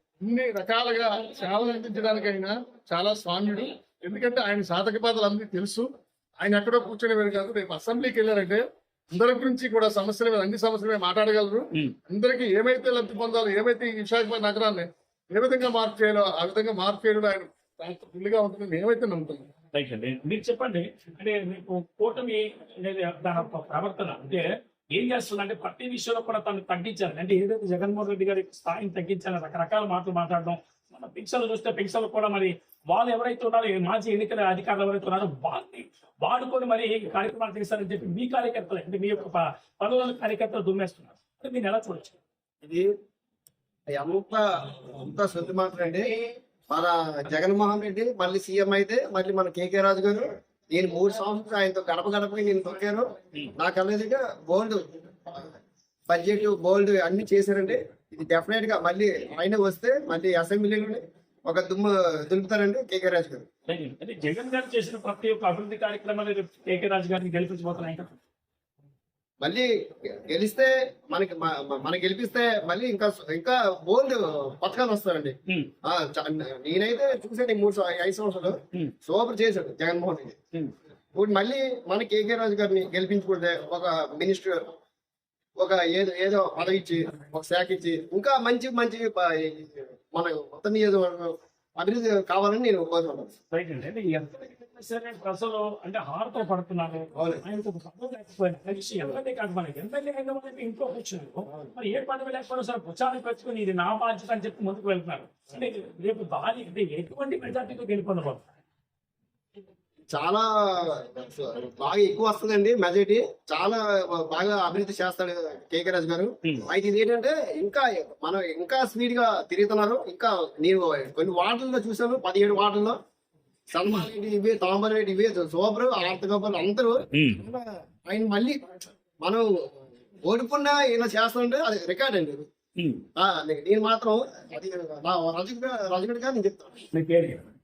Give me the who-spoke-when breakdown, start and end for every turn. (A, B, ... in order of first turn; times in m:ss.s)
0:00.2-0:05.9 A
0:06.4-0:19.5 A
0:19.7-0:42.2 B
0:42.6-0:42.9 C
0:43.9-1:03.5 C
1:03.7-1:08.1 B
1:09.4-1:20.4 C
1:21.1-1:24.7 C
1:25.6-1:33.3 C
1:33.5-1:48.4 B
1:37.2-1:37.4 C
1:50.1-2:03.0 C
2:03.7-2:12.5 C
2:07.1-2:07.4 B
2:12.8-2:13.0 B
2:13.2-2:16.8 C
2:16.9-2:17.5 B